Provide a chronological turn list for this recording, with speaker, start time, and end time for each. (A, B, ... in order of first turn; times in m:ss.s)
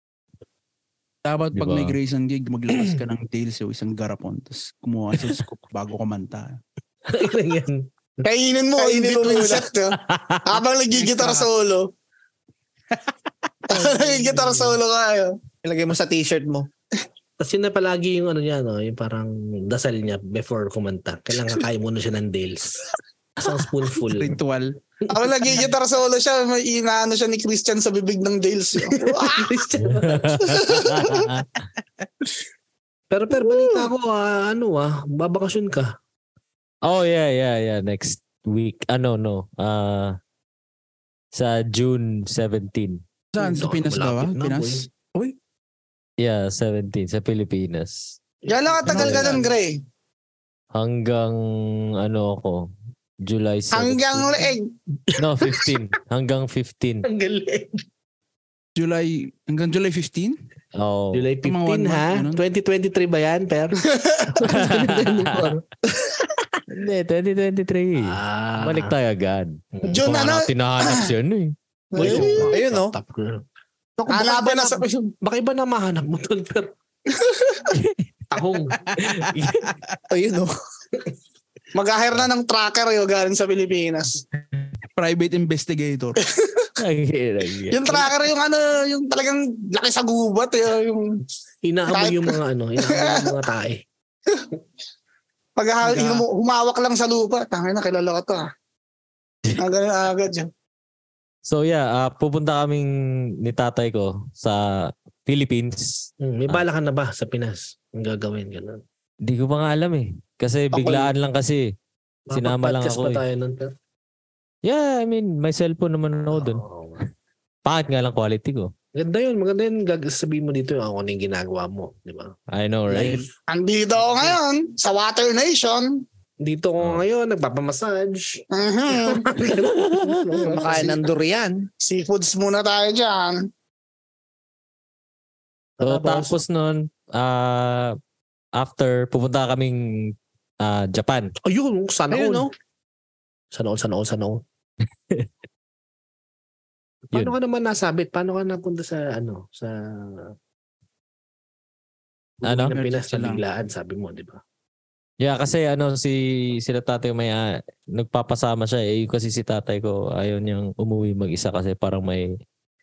0:01.2-0:06.6 A
0:01.6-0:02.0 B
0:02.7-0:03.0 C
0:07.0-0:07.9 C
0:08.2-0:10.0 D
0:08.8-0:09.7 E
0:10.1-0:10.6 B
0:10.5-0:11.9 D
0:11.0-0:11.5 A
0:13.7-0:15.4 D
0:13.7-0:14.8 C
0:15.6-0:16.7 E
0:17.4-0:22.8 C
0:23.4-0:24.4 C
0:24.0-0:24.8 A
0:25.1-0:29.0 D
0:28.9-0:30.6 C
0:29.8-0:31.5 B
0:30.4-0:31.2 D
0:33.1-0:36.0 C
0:36.8-0:40.2 B
0:41.3-0:43.0 B
0:43.4-0:44.9 A
0:43.4-0:44.9 C
0:46.2-0:48.2 B
0:48.4-0:49.4 C
0:48.5-0:49.8 D
0:48.9-0:49.4 B
0:50.7-0:51.4 B
0:52.0-0:52.7 B
0:53.2-0:54.5 B
0:53.7-0:54.7 D
0:55.2-0:57.1 B
0:57.0-0:57.8 C
0:58.8-1:00.4 A
1:00.8-1:01.3 B
1:01.1-1:03.8 C
1:01.4-1:02.4 A
1:04.4-1:05.6 C
1:04.5-1:05.6 B
1:06.7-1:11.6 B
1:08.0-1:09.0 C
1:09.8-1:10.0 C
1:09.9-1:11.1 D
1:11.9-1:12.4 D
1:12.0-1:13.0 E
1:12.0-1:13.4 C
1:14.0-1:16.7 C
1:14.1-1:15.1 D
1:17.3-1:17.7 D
1:17.7-1:18.1 B
1:18.3-1:19.0 C
1:19.2-1:19.7 B
1:20.1-1:20.5 E
1:21.8-1:24.2 D
1:25.0-1:26.2 A
1:26.8-1:28.1 B
1:27.7-1:31.1 D
1:31.6-1:33.8 C
1:31.9-1:33.3 D
1:35.6-1:38.5 D
1:39.6-1:40.5 D
1:41.4-1:46.6 B
1:46.2-1:48.8 C
1:49.2-1:51.7 B
1:50.7-1:51.1 E
1:52.3-1:53.7 C
1:52.3-1:53.2 B
1:54.6-1:56.6 B
1:56.3-1:57.0 C
1:57.6-1:58.7 B
1:59.0-2:02.4 C
2:02.5-2:03.3 B
2:02.9-2:03.3 C
2:03.5-2:06.0 D
2:06.4-2:11.0 C
2:08.5-2:09.2 D
2:09.9-2:10.4 B
2:10.5-2:11.7 E
2:11.8-2:13.4 D
2:15.8-2:16.4 C
2:15.8-2:18.0 B
2:18.5-2:21.3 B
2:21.4-2:22.5 C
2:22.1-2:22.5 E
2:23.5-2:24.4 C
2:27.1-2:30.3 C
2:32.4-2:34.4 C
2:32.4-2:32.7 B
2:32.7-2:33.4 A
2:35.2-2:42.3 B